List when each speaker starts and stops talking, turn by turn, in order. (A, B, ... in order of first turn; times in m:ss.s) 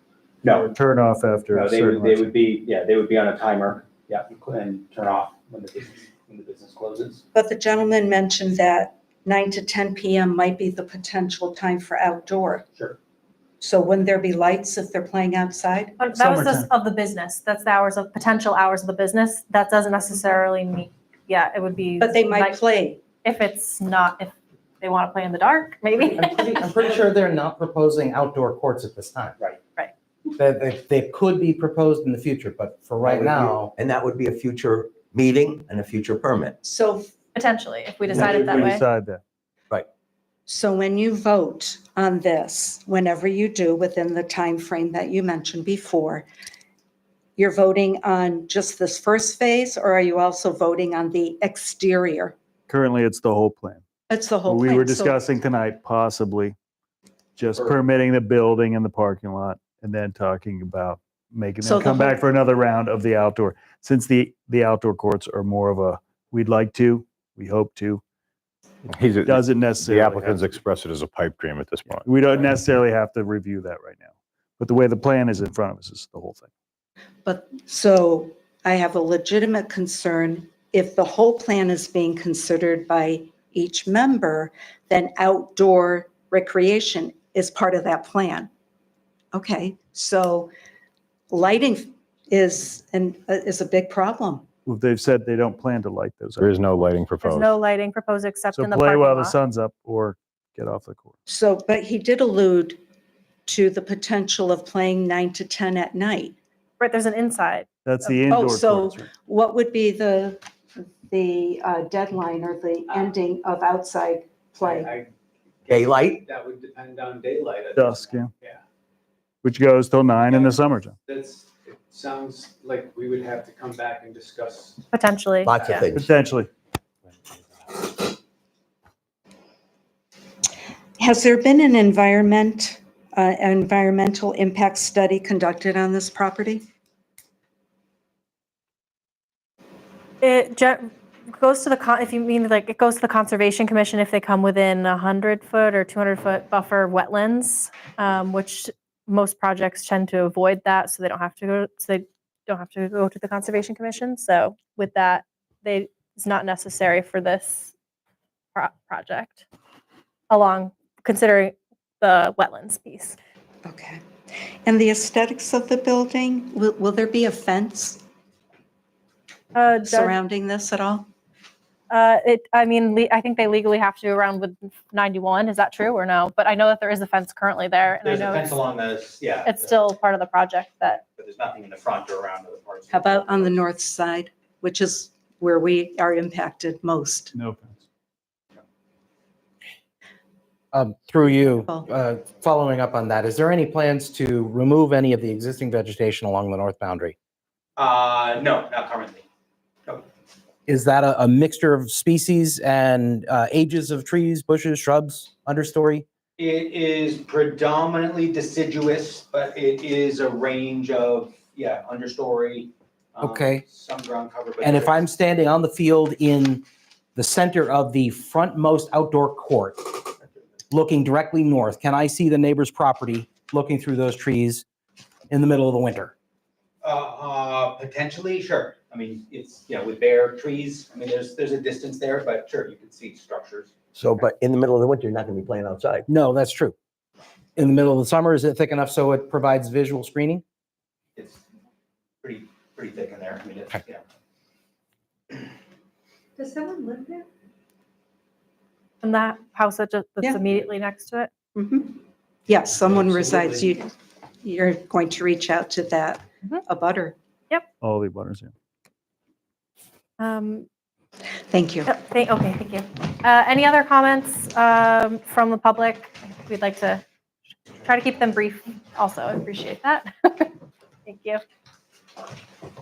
0:00.4-0:00.7 A
0:00.5-0:02.4 B
0:01.5-0:07.2 A
0:07.3-0:12.6 C
0:13.6-0:16.0 C
0:16.0-0:22.6 D
0:16.2-0:16.7 B
0:22.0-0:23.0 C
0:23.2-0:26.6 D
0:26.1-0:29.4 E
0:30.4-0:33.7 E
0:33.0-0:36.6 F
0:36.6-0:37.1 C
0:37.4-0:38.8 D
0:38.2-0:38.7 A
0:38.5-0:39.2 B
0:40.5-0:46.3 C
0:47.4-0:52.4 C
0:52.7-0:53.8 B
0:54.1-0:55.2 C
0:54.4-0:56.6 B
0:57.4-1:08.0 B
1:01.6-1:02.2 C
1:08.9-1:10.5 B
1:08.9-1:12.5 G
1:12.0-1:14.0 B
1:14.6-1:16.5 B
1:17.2-1:28.5 C
1:29.3-1:30.5 C
1:31.3-1:34.5 C
1:34.7-1:36.5 B
1:36.4-1:37.5 G
1:37.2-1:39.4 D
1:38.6-1:41.1 B
1:41.3-1:42.8 C
1:43.5-1:46.4 C
1:46.8-1:48.2 D
1:47.9-1:49.1 B
1:48.3-1:50.4 C
1:51.1-1:54.9 C
1:54.6-1:55.1 A
1:55.7-1:58.6 A
1:55.7-1:56.2 F
1:57.8-1:58.3 B
1:59.4-2:01.0 B
2:00.3-2:04.8 A
2:04.9-2:05.8 D
2:05.4-2:06.1 F
2:05.9-2:06.5 B
2:11.0-2:16.6 C
2:20.2-2:37.7 D
2:38.6-2:39.4 D
2:40.3-2:43.2 D
2:43.6-2:44.0 C
2:44.6-2:48.0 C
2:49.5-2:50.2 D
2:49.8-2:51.1 C
2:51.9-2:58.7 D
2:58.0-2:59.8 A
2:59.4-3:01.0 D
3:01.2-3:03.7 A
3:02.9-3:07.3 C
3:07.3-3:07.8 B
3:10.7-3:17.2 E
3:11.2-3:11.9 C
3:17.8-3:19.2 A
3:20.7-3:26.1 E
3:26.4-3:35.0 A
3:33.2-3:33.6 E
3:34.6-3:36.6 E
3:37.2-3:40.0 E
3:40.7-3:44.6 E
3:45.3-3:46.1 E
3:46.8-3:53.7 A
3:53.9-3:56.1 F
3:56.1-3:56.8 E
3:57.6-4:00.4 E
4:01.2-4:01.4 A
4:02.2-4:04.0 A
4:06.4-4:07.2 C
4:09.0-4:11.3 D
4:11.6-4:17.2 C
4:13.0-4:13.6 A
4:17.8-4:18.5 B
4:20.2-4:20.7 D
4:21.5-4:21.9 C
4:21.9-4:27.0 D
4:27.8-4:30.5 D
4:31.1-4:31.4 D